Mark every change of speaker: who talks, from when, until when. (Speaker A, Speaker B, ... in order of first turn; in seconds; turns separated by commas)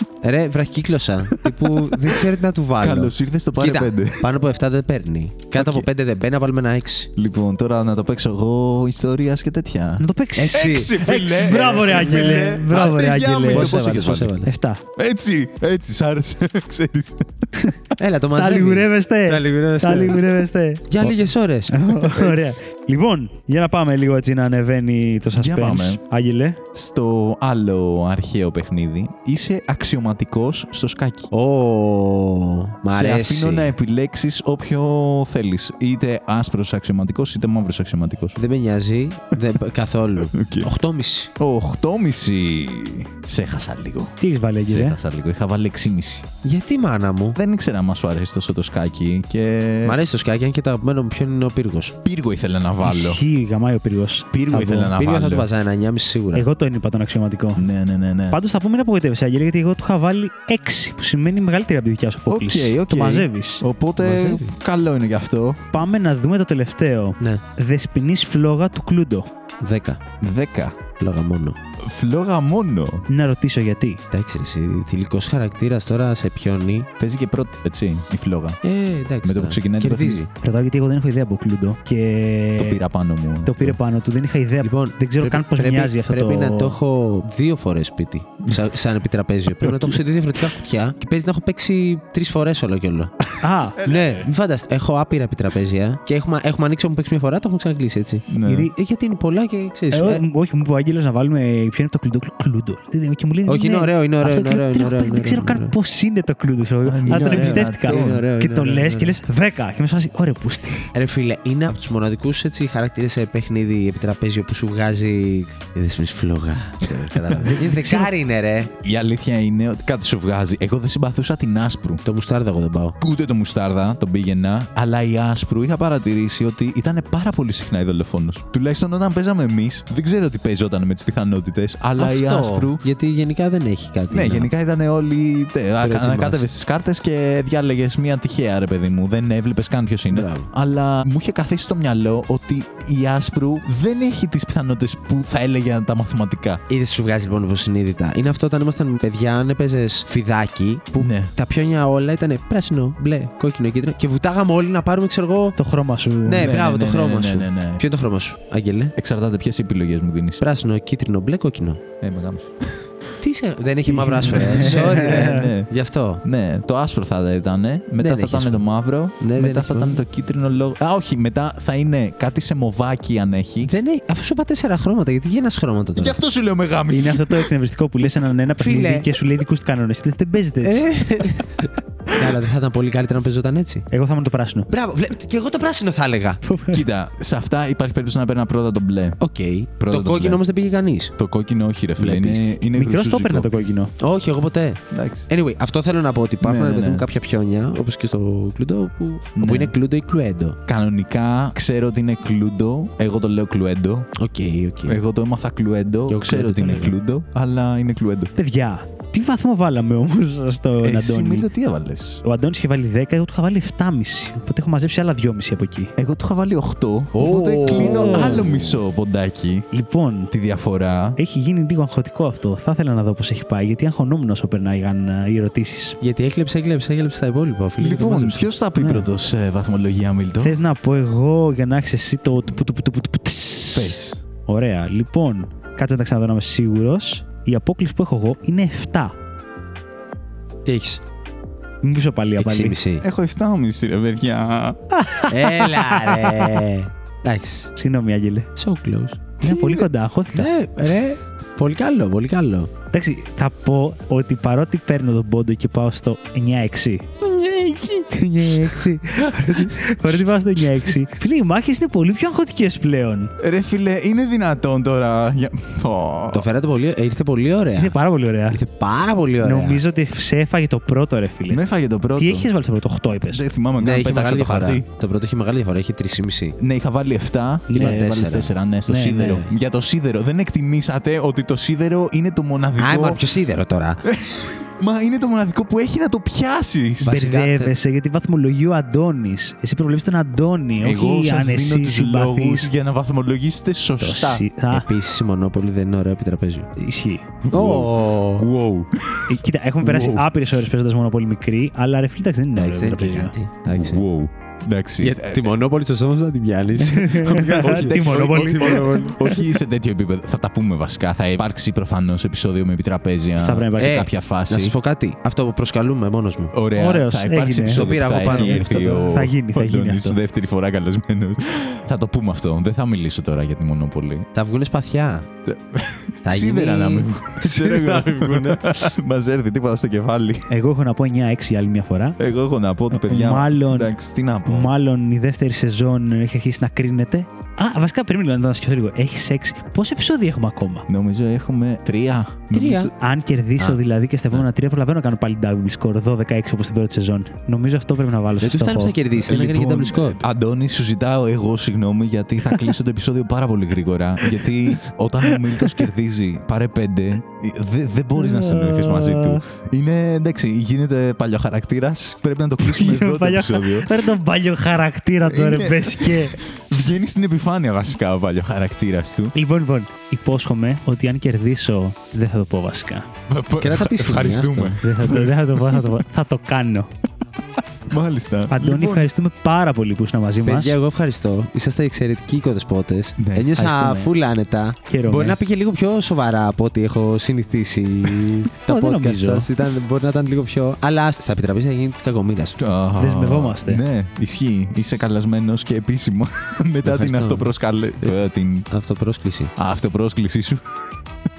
Speaker A: 0.2-7.1, Speaker B: 1.3-2.2, Speaker B: 2.8-4.3, Speaker B: 5.5-5.9, Speaker B: 7.2-14.4, Speaker C: 10.0-13.7, Speaker A: 10.3-14.5, Speaker C: 14.4-14.8, Speaker B: 15.0-17.5, Speaker A: 18.0-20.2, Speaker C: 18.4-20.9, Speaker A: 20.9-21.8, Speaker C: 21.7-26.6, Speaker B: 21.9-22.6, Speaker B: 25.3-26.0, Speaker B: 26.7-31.3, Speaker A: 31.3-33.7, Speaker B: 32.9-38.4, Speaker A: 38.4-41.3, Speaker B: 40.2-40.7, Speaker B: 41.4-46.3, Speaker C: 44.2-45.0, Speaker A: 46.4-47.4, Speaker B: 47.3-50.0, Speaker A: 49.8-51.9, Speaker B: 52.0-53.2, Speaker C: 52.8-54.9, Speaker B: 54.3-55.5, Speaker A: 54.9-56.5, Speaker C: 56.3-57.6, Speaker B: 57.5-58.4, Speaker C: 58.3-63.6, Speaker B: 62.3-65.7, Speaker A: 64.0-64.5, Speaker C: 65.7-69.3, Speaker A: 69.6-70.0, Speaker B: 70.2-70.8, Speaker A: 71.0-71.6, Speaker B: 71.8-73.0, Speaker C: 73.1-74.0, Speaker A: 74.1-76.9, Speaker B: 77.0-78.6, Speaker A: 78.6-80.3, Speaker B: 79.2-80.2, Speaker C: 80.4-82.8, Speaker B: 82.6-83.8, Speaker C: 83.4-86.8, Speaker A: 84.6-93.1, Speaker B: 88.5-88.9, Speaker B: 89.6-90.0, Speaker C: 93.4-93.8, Speaker B: 93.8-94.3, Speaker A: 93.8-100.2, Speaker B: 98.3-98.7, Speaker C: 98.4-98.7, Speaker C: 99.9-110.9, Speaker A: 103.5-105.7, Speaker B: 106.8-108.2, Speaker A: 107.1-109.2, Speaker A: 110.9-118.7, Speaker B: 117.0-117.4, Speaker C: 117.4-118.1, Speaker B: 118.8-122.0, Speaker A: 122.0-123.0, Speaker B: 123.0-132.8, Speaker A: 132.0-134.5, Speaker B: 134.1-146.6, Speaker A: 135.8-136.4, Speaker A: 140.1-140.5, Speaker A: 146.7-155.6, Speaker B: 151.0-151.3, Speaker C: 155.6-156.6, Speaker A: 156.2-158.9, Speaker B: 156.4-157.8, Speaker B: 158.9-160.4, Speaker A: 160.4-161.8, Speaker B: 162.0-162.9, Speaker A: 163.2-166.2, Speaker C: 163.9-165.5, Speaker B: 164.3-165.7, Speaker B: 166.2-173.7, Speaker A: 168.0-168.7, Speaker A: 169.2-170.0, Speaker A: 173.6-176.2, Speaker B: 175.9-177.5, Speaker C: 176.9-180.9, Speaker A: 178.5-179.1, Speaker A: 180.6-183.8, Speaker B: 182.1-182.4, Speaker C: 183.9-184.7, Speaker A: 184.7-186.4, Speaker C: 186.4-186.8, Speaker B: 186.7-189.2, Speaker A: 189.2-191.1, Speaker B: 189.8-190.4, Speaker B: 191.2-193.5, Speaker A: 192.0-192.5, Speaker C: 192.7-193.9, Speaker A: 194.0-200.6, Speaker B: 194.9-195.3, Speaker B: 196.4-197.1, Speaker B: 199.4-199.7, Speaker B: 200.7-204.1, Speaker A: 204.2-205.0, Speaker B: 204.8-208.3, Speaker A: 206.1-206.9, Speaker C: 208.3-211.5, Speaker B: 210.8-212.2, Speaker C: 212.2-215.9, Speaker B: 216.0-219.7, Speaker A: 217.1-218.8, Speaker C: 217.6-218.4, Speaker C: 219.7-220.3, Speaker B: 220.3-221.2, Speaker C: 221.2-226.0, Speaker A: 226.0-228.4, Speaker B: 227.8-230.6, Speaker C: 228.8-229.1, Speaker C: 230.4-239.1, Speaker B: 233.7-234.2, Speaker A: 240.7-241.0, Speaker C: 241.8-242.8, Speaker A: 242.4-243.0, Speaker B: 243.0-244.8, Speaker C: 244.9-246.7, Speaker A: 245.3-247.7, Speaker C: 247.8-248.5, Speaker A: 248.6-252.7, Speaker C: 249.4-250.5, Speaker C: 252.9-257.1, Speaker B: 257.2-258.8, Speaker C: 258.1-263.3, Speaker B: 263.4-266.5, Speaker A: 266.3-268.0, Speaker C: 267.8-268.6, Speaker A: 268.5-269.8, Speaker C: 269.4-271.6, Speaker B: 271.5-272.5, Speaker C: 272.1-273.4, Speaker B: 273.1-274.8, Speaker A: 273.8-276.6, Speaker B: 276.6-283.2, Speaker C: 277.7-278.0, Speaker A: 277.7-278.5, Speaker C: 278.9-279.4, Speaker A: 279.1-279.5, Speaker A: 282.8-284.0, Speaker B: 284.0-287.2, Speaker A: 287.0-287.7, Speaker C: 287.0-292.7, Speaker B: 290.8-294.5, Speaker C: 294.0-294.9, Speaker A: 294.7-296.7, Speaker C: 296.8-297.2, Speaker B: 297.4-300.3, Speaker A: 297.5-298.5, Speaker C: 299.3-303.3, Speaker A: 302.5-304.0, Speaker B: 303.7-305.5, Speaker A: 305.0-309.3, Speaker C: 306.8-309.3, Speaker B: 307.7-314.7, Speaker C: 313.4-313.9, Speaker A: 313.8-316.5, Speaker B: 316.5-324.3, Speaker C: 316.7-320.2, Speaker A: 317.7-319.1, Speaker A: 324.3-325.3, Speaker B: 325.4-330.5, Speaker A: 326.2-328.9, Speaker C: 330.5-332.2, Speaker B: 332.2-334.7, Speaker C: 332.9-340.9, Speaker B: 340.9-342.9, Speaker A: 342.5-342.9, Speaker C: 343.0-348.9, Speaker A: 348.4-350.2, Speaker B: 349.2-364.1, Speaker C: 355.2-355.9, Speaker C: 358.2-359.4, Speaker C: 362.6-366.4, Speaker B: 365.2-369.3, Speaker C: 369.3-373.1, Speaker B: 373.3-376.0, Speaker A: 373.6-374.8, Speaker C: 374.8-376.9, Speaker B: 377.9-379.1, Speaker C: 378.5-380.7, Speaker A: 380.4-392.6, Speaker B: 383.2-383.7, Speaker C: 383.6-384.1, Speaker C: 384.9-385.4, Speaker C: 388.7-389.5, Speaker B: 392.6-398.7, Speaker C: 393.0-393.8, Speaker A: 396.8-398.2, Speaker A: 398.7-399.5, Speaker B: 399.6-401.0